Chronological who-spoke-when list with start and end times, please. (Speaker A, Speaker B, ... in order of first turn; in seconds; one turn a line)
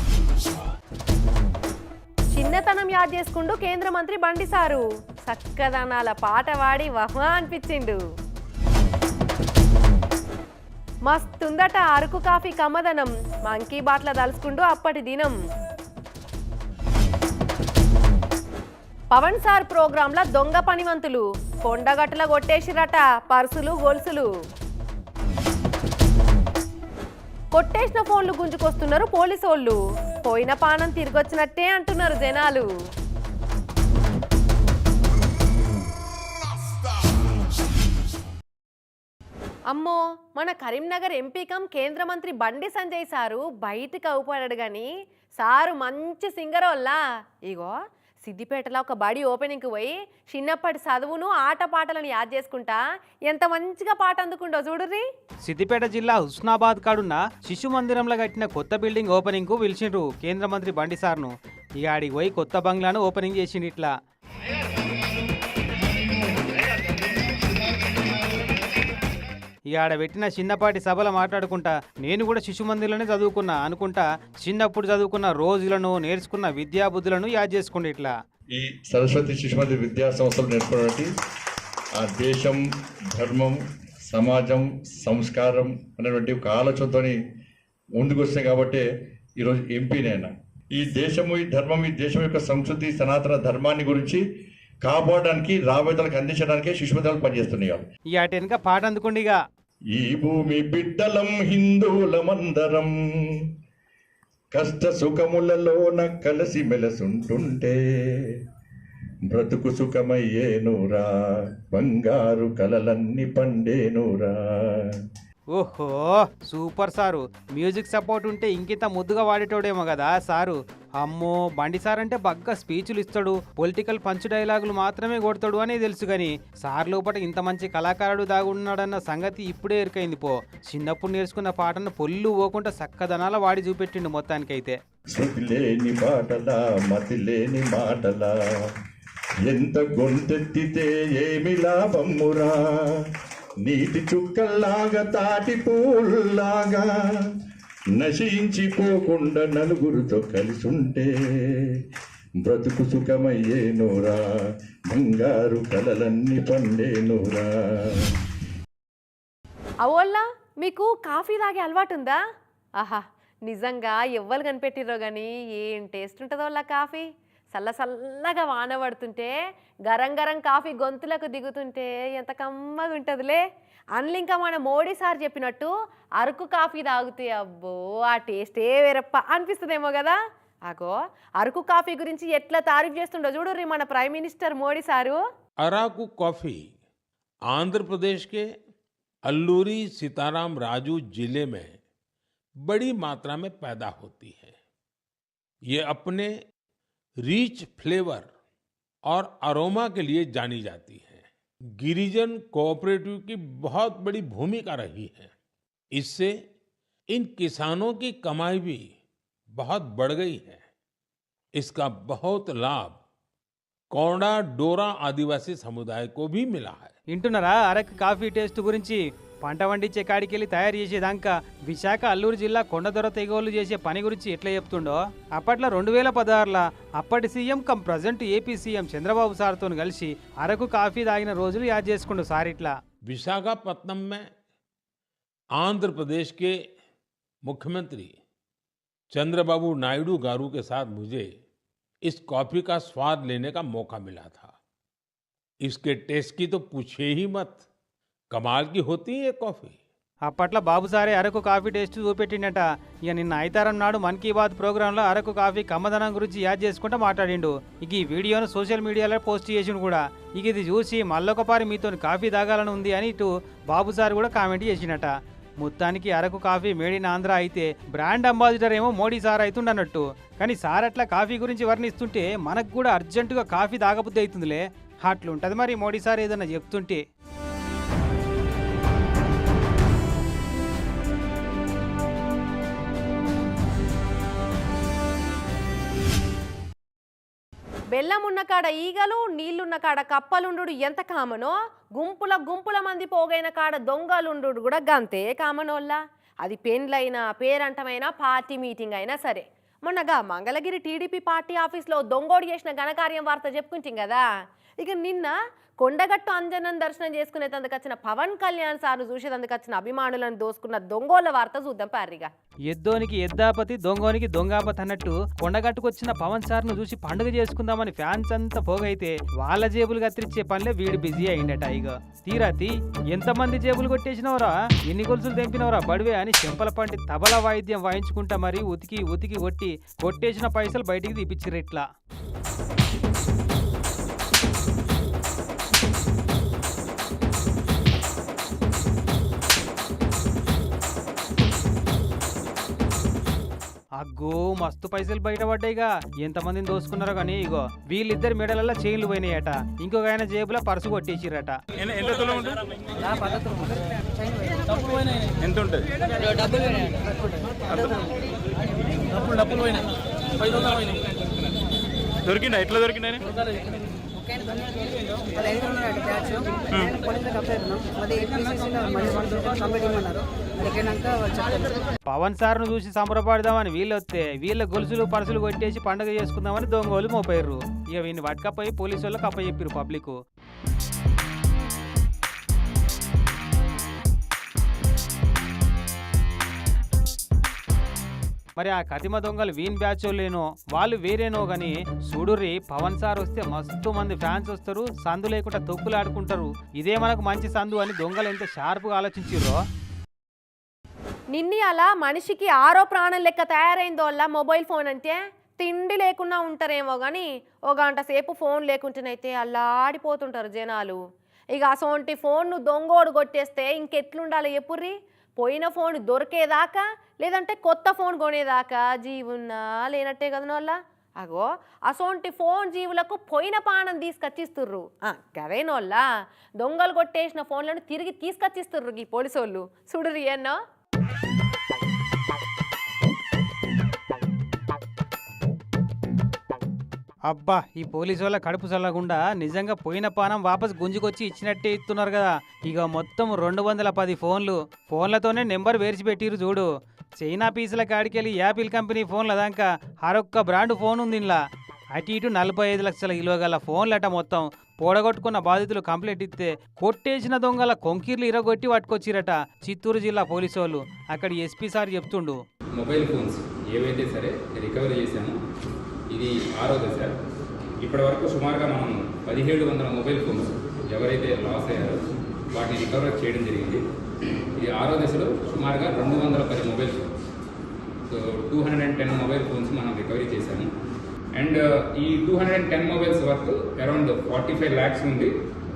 Speaker A: 2.3-8.0
Speaker A: 11.1-15.4
Speaker A: 19.1-24.3
Speaker A: 27.5-32.7
Speaker A: 39.7-55.0
Speaker B: 55.5-63.9
Speaker B: 69.7-78.1
Speaker C: 78.5-81.1
Speaker C: 82.0-82.6
Speaker C: 83.1-83.6
Speaker C: 84.1-87.2
Speaker C: 88.0-88.8
Speaker C: 89.4-94.2
Speaker C: 94.8-97.8
Speaker B: 98.1-99.4
Speaker C: 100.0-102.9
Speaker C: 104.5-107.8
Speaker C: 109.3-111.1
Speaker C: 111.7-114.8
Speaker B: 115.5-134.8
Speaker C: 135.1-138.3
Speaker C: 139.5-142.6
Speaker C: 143.6-146.9
Speaker C: 147.9-151.1
Speaker C: 152.4-154.2
Speaker C: 154.9-158.0
Speaker A: 159.8-162.2
Speaker A: 162.8-169.3
Speaker A: 169.9-173.4
Speaker A: 173.9-185.2
Speaker D: 185.6-186.7
Speaker D: 187.5-188.5
Speaker D: 189.2-191.8
Speaker D: 192.6-194.6
Speaker D: 195.7-196.3
Speaker D: 197.2-198.3
Speaker D: 199.1-205.3
Speaker D: 205.9-206.4
Speaker D: 207.1-208.9
Speaker D: 209.6-210.6
Speaker D: 211.6-213.0
Speaker D: 213.9-216.9
Speaker B: 217.1-232.8
Speaker D: 233.0-234.3
Speaker D: 235.5-236.6
Speaker D: 237.4-238.1
Speaker D: 239.1-241.3
Speaker D: 242.0-244.5
Speaker D: 245.6-247.7
Speaker D: 248.3-249.8
Speaker B: 250.2-277.0
Speaker A: 287.9-304.2
Speaker A: 304.8-312.3
Speaker B: 312.7-331.8
Speaker B: 344.0-351.6
Speaker E: 351.9-352.6
Speaker E: 355.4-355.9
Speaker E: 362.3-363.1
Speaker F: 368.2-370.1
Speaker F: 370.7-371.1
Speaker B: 372.1-380.1
Speaker B: 388.6-399.6
Speaker A: 401.3-411.0
Speaker A: 411.5-426.1
Speaker A: 426.6-430.6
Speaker B: 437.2-451.4
Speaker B: 451.9-462.4
Speaker G: 462.8-465.4
Speaker G: 466.1-467.1
Speaker G: 467.8-473.8
Speaker G: 474.6-477.1
Speaker G: 478.1-480.7
Speaker G: 481.4-485.3